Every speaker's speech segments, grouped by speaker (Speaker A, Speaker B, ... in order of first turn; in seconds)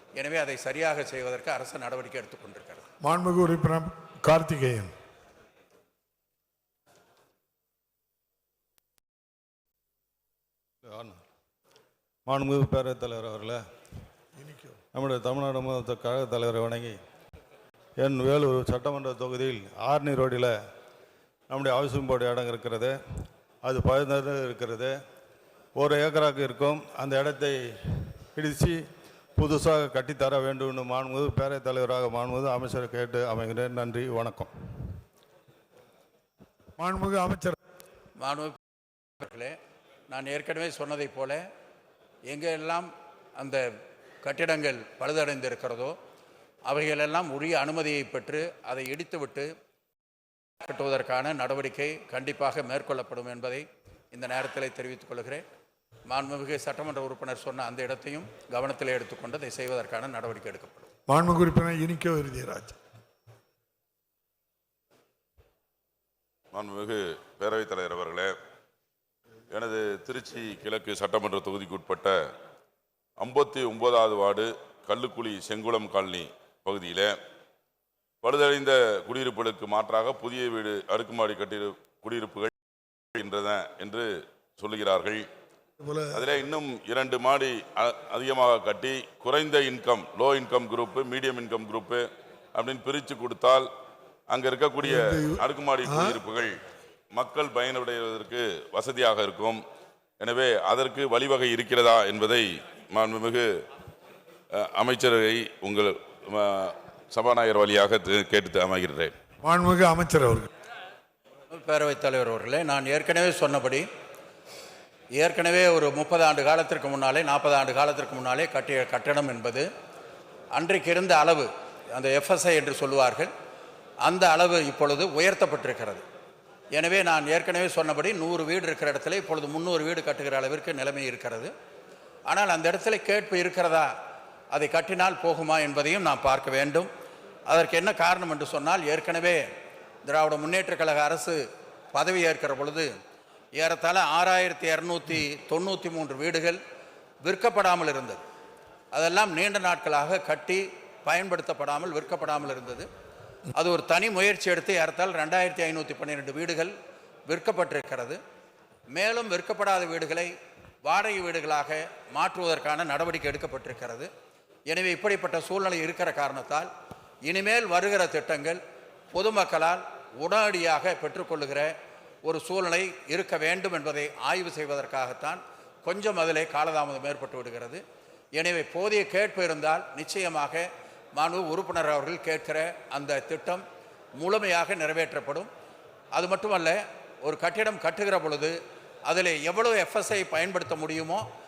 Speaker A: 0.2-2.8, 38.2-38.6, 39.2-39.5, 40.1-41.4, 42.3-43.6, 44.2-45.9, 46.7-49.5, 50.6-55.4, 56.1-60.9, 111.5-113.8, 115.2-119.6, 120.5-123.3, 124.0-126.0, 126.7-131.5, 132.3-133.9, 134.5-136.9, 137.5-139.4, 140.0-141.4, 141.9-142.9, 143.6-146.6, 147.2-148.2, 148.9-152.9, 153.6-156.7, 157.3-158.2, 158.9-160.3, 160.8-164.1, 164.7-166.7, 167.3-168.6, 169.1-171.7, 172.2-177.8, 178.4-183.6, 184.2-185.5, 186.1-188.5, 189.1-191.2
Speaker B: 3.0-4.9, 14.3-14.8, 36.8-37.6, 61.1-62.8, 85.8-86.2, 94.9-96.2, 109.4-110.5
Speaker C: 10.8-11.2, 12.3-13.6, 14.9-17.0, 18.0-20.5, 21.5-22.9, 23.6-24.9, 25.8-28.8, 29.4-34.9
Speaker D: 66.5-68.3, 69.5-72.2, 73.2-77.1, 78.2-82.5, 83.2-85.3, 86.1-93.7, 94.3-96.6, 97.1-99.6, 100.2-103.5, 104.5-109.1